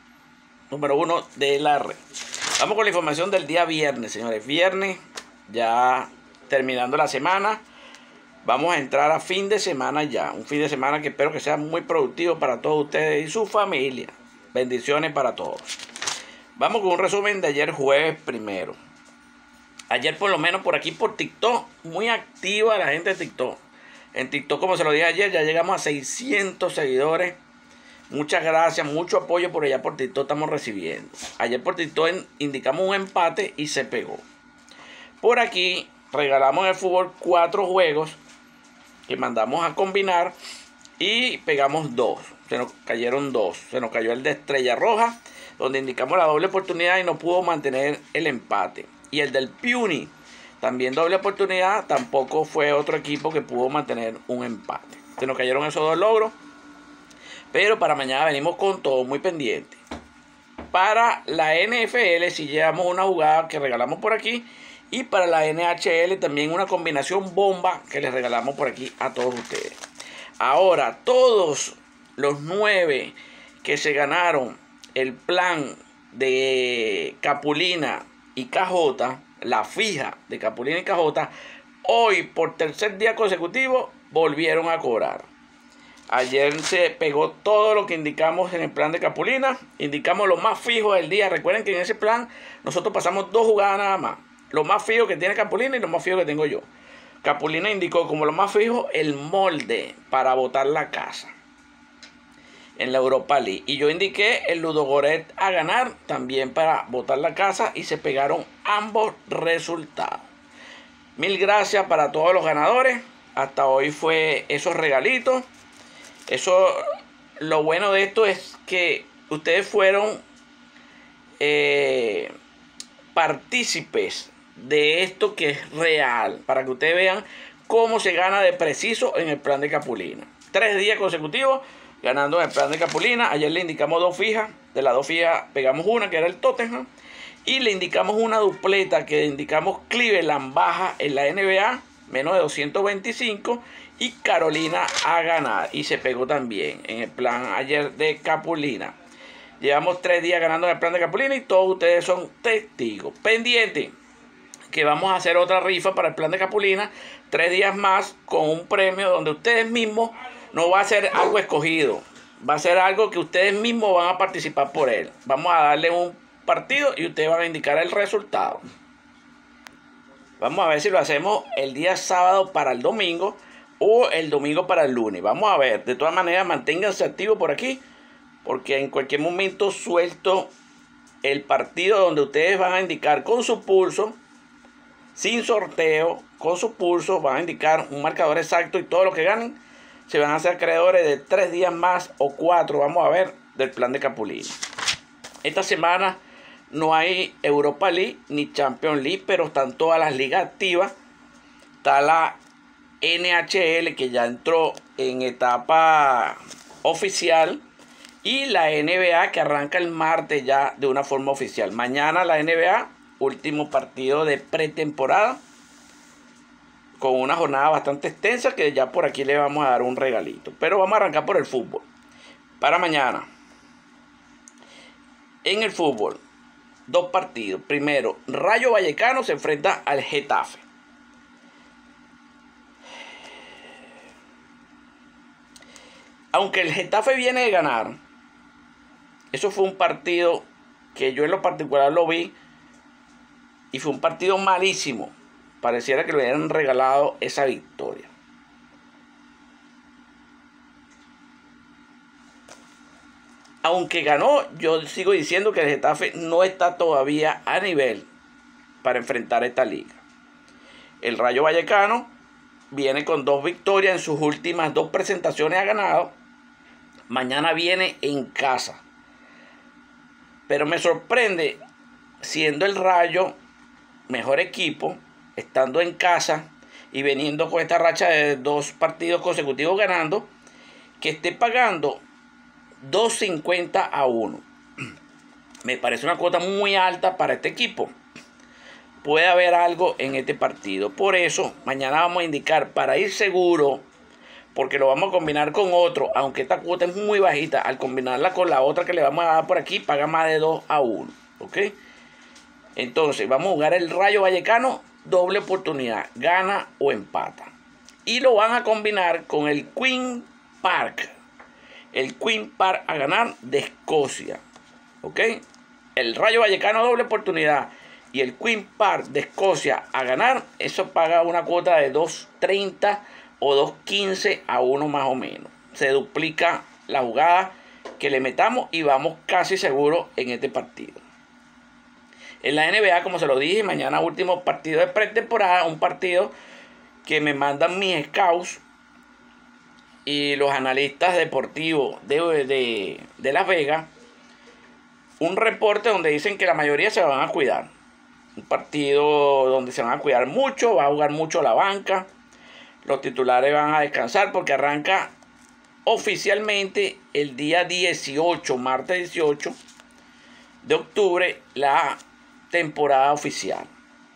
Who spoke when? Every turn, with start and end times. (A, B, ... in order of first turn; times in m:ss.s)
0:00.7-0:07.6 A
0:08.4-0:15.8 A
0:16.6-0:18.8 A
0:19.9-0:23.6 A
0:24.1-0:27.4 A
0:28.1-0:34.2 A
0:35.2-0:38.2 A
0:39.1-0:40.4 A
0:41.0-0:56.4 A
0:57.5-0:59.8 A
1:00.7-1:09.8 A
1:10.4-1:21.3 A
1:21.8-1:25.3 A
1:26.1-1:36.7 A
1:37.2-1:41.3 A
1:42.8-1:50.2 A
1:51.2-1:55.5 A
1:56.3-1:56.8 A
1:57.4-2:00.2 A
2:01.4-2:02.3 A
2:03.1-2:16.9 A
2:17.4-2:28.9 A
2:29.6-2:33.9 A
2:34.7-2:48.6 A
2:50.4-2:57.8 A
2:58.4-3:00.5 A
3:01.2-3:04.2 A
3:05.2-3:14.6 A
3:15.4-3:16.2 A
3:16.7-3:20.9 A
3:21.8-3:22.4 A
3:23.0-3:27.6 A
3:28.2-3:35.4 A
3:37.0-3:41.9 A
3:42.6-3:43.3 A
3:45.4-3:46.2 A
3:46.9-3:50.7 A
3:56.3-3:58.0 A
3:59.3-4:02.3 A
4:03.7-4:08.1 A
4:13.6-4:18.1 A
4:18.8-4:20.0 A
4:21.0-4:22.1 A
4:22.7-4:26.1 A
4:27.1-4:28.8 A
4:30.5-4:31.6 A
4:32.2-4:33.4 A
4:34.1-4:40.3 A
4:41.0-4:42.0 A
4:42.8-4:44.4 A
4:45.6-4:47.9 A
4:49.0-4:53.8 A
4:54.5-5:01.8 A
5:02.8-5:07.5 A
5:08.1-5:11.1 A
5:11.9-5:14.4 A
5:15.0-5:15.4 A
5:16.0-5:31.0 A
5:32.4-5:36.3 A
5:37.0-5:38.6 A
5:40.0-5:43.9 A
5:45.2-5:47.7 A
5:48.4-5:52.1 A
5:52.8-5:55.1 A
5:55.8-5:59.6 A
6:00.6-6:02.0 A
6:02.5-6:03.7 A